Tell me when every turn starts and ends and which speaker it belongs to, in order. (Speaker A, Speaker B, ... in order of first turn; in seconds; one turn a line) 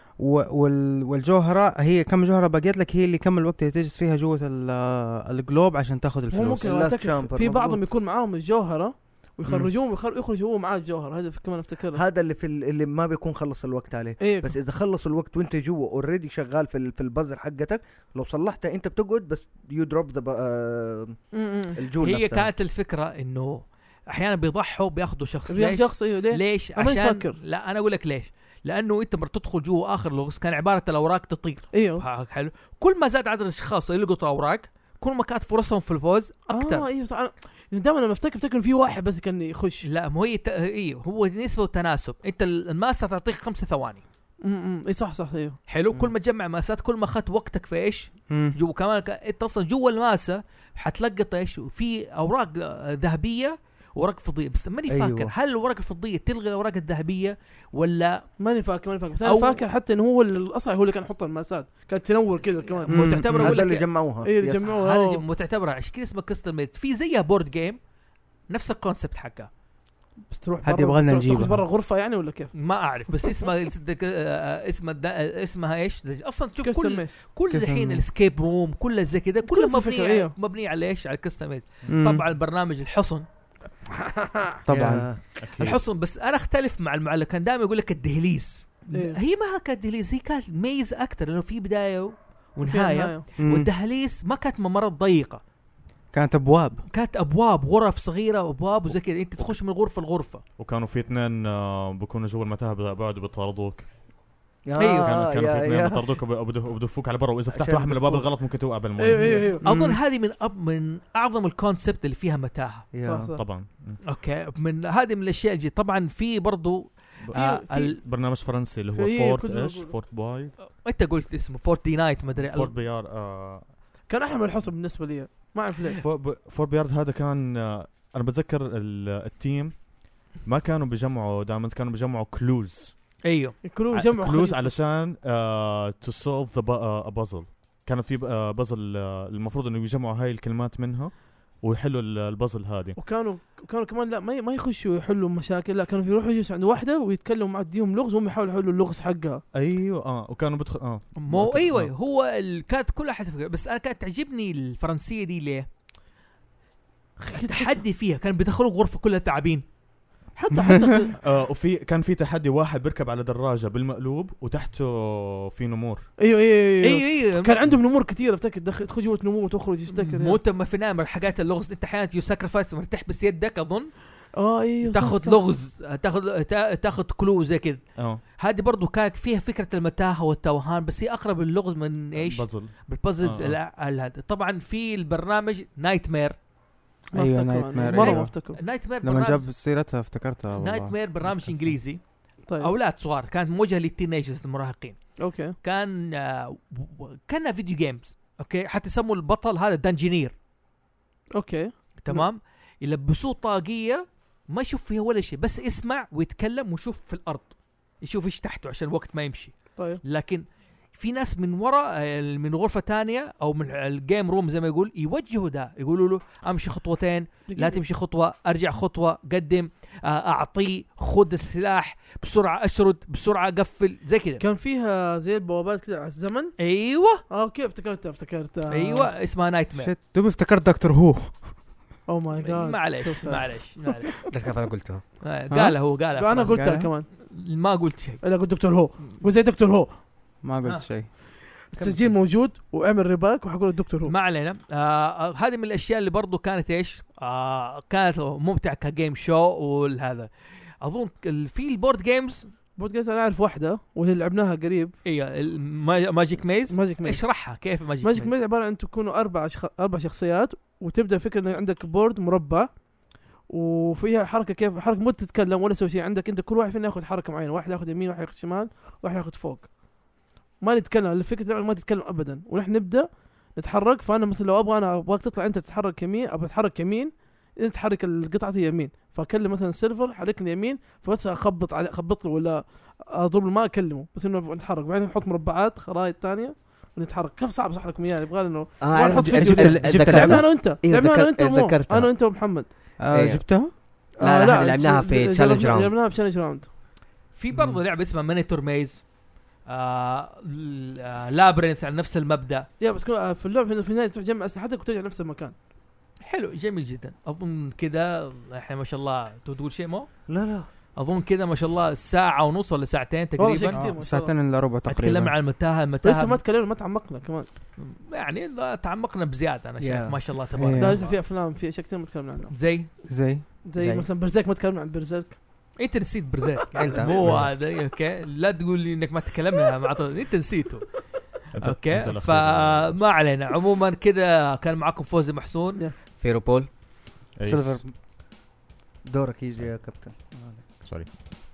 Speaker A: 0.2-6.7
Speaker B: 6.3-12.0
Speaker C: 6.4-7.8
Speaker C: 11.9-22.5
Speaker B: 14.2-14.6
Speaker B: 21.3-21.8
Speaker D: 22.0-36.9
Speaker B: 25.5-27.4
Speaker B: 31.7-32.0
Speaker B: 36.5-39.8
Speaker D: 39.8-44.0
Speaker B: 44.4-45.6
Speaker D: 45.7-58.3
Speaker A: 48.3-48.5
Speaker C: 54.9-55.3
Speaker B: 58.4-63.0
Speaker D: 59.2-59.6
Speaker D: 62.6-63.9
Speaker A: 62.9-63.6
Speaker C: 63.3-64.6
Speaker B: 64.2-65.2
Speaker D: 64.6-67.8
Speaker D: 68.5-69.5
Speaker B: 70.3-72.5
Speaker A: 70.6-71.6
Speaker D: 72.5-83.2
Speaker B: 76.5-77.3
Speaker A: 77.5-78.0
Speaker B: 79.4-80.3
Speaker A: 81.9-82.2
Speaker B: 84.0-84.6
Speaker A: 84.7-85.1
Speaker C: 84.7-85.2
Speaker E: 85.4-85.8
Speaker D: 85.5-95.4
Speaker B: 88.9-89.2
Speaker B: 92.7-93.3
Speaker A: 93.4-93.7
Speaker A: 96.1-96.8
Speaker D: 96.9-100.4
Speaker E: 100.6-104.2
Speaker C: 104.6-106.1
Speaker D: 104.8-105.1
Speaker E: 104.8-109.5
Speaker C: 107.5-108.3
Speaker B: 109.0-109.6
Speaker C: 109.2-109.4
Speaker D: 109.6-112.9
Speaker A: 109.7-110.0
Speaker C: 112.9-113.3
Speaker B: 113.0-113.4
Speaker E: 113.3-114.0
Speaker D: 114.0-117.9
Speaker E: 117.3-120.5
Speaker B: 117.3-117.9
Speaker B: 118.9-120.0
Speaker D: 120.6-122.7
Speaker E: 122.3-123.9
Speaker B: 124.1-126.0
Speaker E: 126.0-133.2
Speaker D: 133.2-133.6
Speaker B: 133.6-134.8
Speaker E: 133.9-143.0
Speaker B: 143.0-149.4
Speaker E: 149.5-151.9
Speaker D: 151.2-155.7
Speaker B: 157.2-157.8
Speaker D: 157.5-159.6
Speaker B: 160.3-161.2
Speaker A: 160.5-160.9
Speaker E: 161.2-166.1
Speaker B: 166.2-170.4
Speaker D: 166.8-167.5
Speaker D: 169.9-174.1
Speaker B: 174.3-175.5
Speaker D: 174.8-186.4
Speaker E: 177.9-178.2
Speaker E: 182.2-183.6
Speaker A: 187.1-191.8
Speaker B: 187.1-188.6
Speaker D: 187.9-189.5
Speaker D: 190.6-200.3
Speaker B: 192.4-192.7
Speaker B: 195.2-195.6
Speaker B: 201.3-202.3
Speaker D: 202.0-224.4
Speaker B: 209.8-210.0
Speaker B: 217.5-217.8
Speaker B: 224.4-226.5
Speaker D: 226.6-227.2
Speaker B: 227.3-229.1
Speaker D: 228.7-229.9
Speaker A: 229.7-231.7
Speaker B: 232.1-233.9
Speaker D: 232.4-234.4
Speaker F: 234.3-235.0
Speaker D: 235.2-238.2
Speaker A: 235.5-235.9
Speaker B: 236.1-237.1
Speaker A: 236.4-236.9
Speaker B: 238.2-240.0
Speaker A: 240.4-241.1
Speaker B: 241.7-244.1
Speaker C: 241.8-242.1
Speaker D: 244.0-250.3
Speaker D: 250.8-252.5
Speaker B: 252.8-254.9
Speaker D: 255.0-258.3
Speaker B: 256.7-262.8
Speaker B: 263.4-269.7
Speaker B: 270.6-293.0
Speaker F: 288.8-292.1
Speaker A: 289.2-290.5
Speaker A: 293.0-293.7
Speaker F: 293.1-295.9
Speaker B: 294.2-296.7
Speaker D: 297.3-299.1
Speaker D: 299.7-302.7
Speaker B: 302.8-305.5
Speaker D: 306.2-310.1
Speaker C: 310.3-310.7
Speaker D: 310.9-313.8
Speaker B: 313.4-314.3
Speaker A: 313.7-315.4
Speaker D: 314.9-316.4
Speaker B: 316.0-317.5
Speaker D: 317.8-321.2
Speaker C: 319.8-320.2
Speaker A: 320.6-321.0
Speaker B: 320.8-322.5
Speaker D: 322.5-322.9
Speaker A: 323.1-324.0
Speaker B: 323.6-325.4
Speaker D: 325.8-331.0
Speaker B: 326.7-327.0
Speaker A: 326.8-327.4
Speaker E: 327.2-327.5
Speaker E: 331.5-333.0
Speaker D: 331.6-335.8
Speaker F: 336.2-336.7
Speaker E: 337.4-337.8
Speaker A: 337.4-337.9
Speaker C: 339.1-340.7
Speaker E: 340.8-341.1